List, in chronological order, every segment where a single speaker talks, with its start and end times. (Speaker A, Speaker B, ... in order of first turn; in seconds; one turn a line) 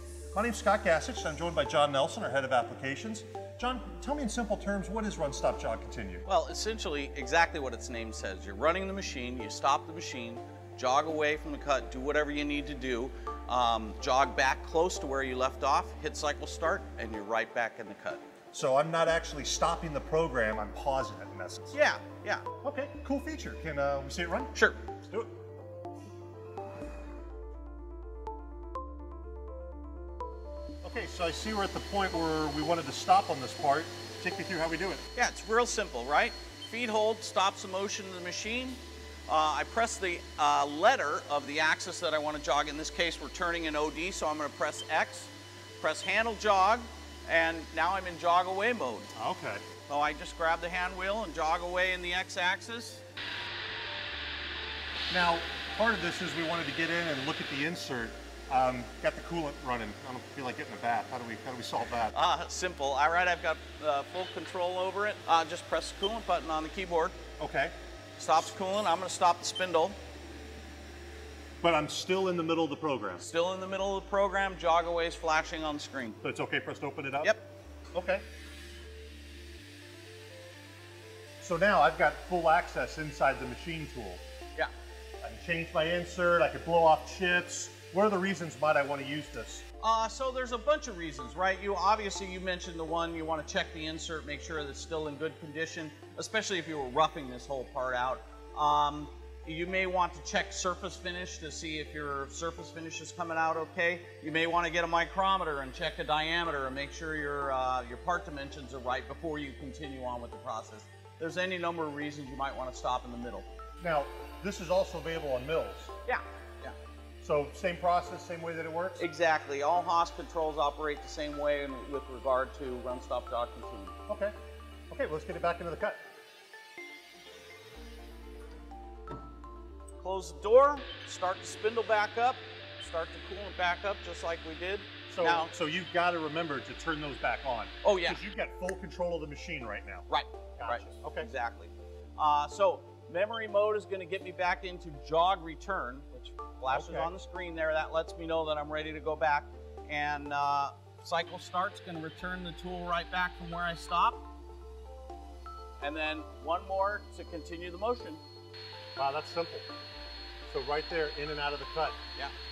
Speaker A: 0.3-6.2
Speaker B: 6.2-18.2
Speaker A: 18.5-21.8
Speaker B: 21.7-22.5
Speaker A: 22.6-24.5
Speaker B: 24.5-24.8
Speaker A: 25.1-25.3
Speaker A: 30.8-35.0
Speaker B: 35.1-49.1
Speaker A: 49.2-49.7
Speaker B: 49.9-53.0
Speaker A: 55.1-62.1
Speaker B: 62.1-67.2
Speaker A: 67.4-67.8
Speaker B: 68.2-70.0
Speaker A: 71.6-73.2
Speaker B: 73.2-76.2
Speaker A: 76.2-77.4
Speaker A: 77.9-78.2
Speaker A: 81.4-84.2
Speaker A: 85.2-89.6
Speaker B: 89.8-113.5
Speaker A: 113.8-115.9
Speaker B: 116.1-116.8
Speaker A: 117.2-119.1
Speaker B: 119.0-123.9
Speaker A: 124.1-124.3
Speaker A: 124.9-126.0
Speaker B: 130.0-135.5
Speaker A: 135.1-140.1
Speaker B: 137.8-138.2
Speaker B: 140.1-154.2
Speaker A: 140.6-141.3
Speaker A: 146.7-147.1
Speaker B: 155.8-158.2
Speaker A: 158.9-159.7
Speaker A: 160.4-162.0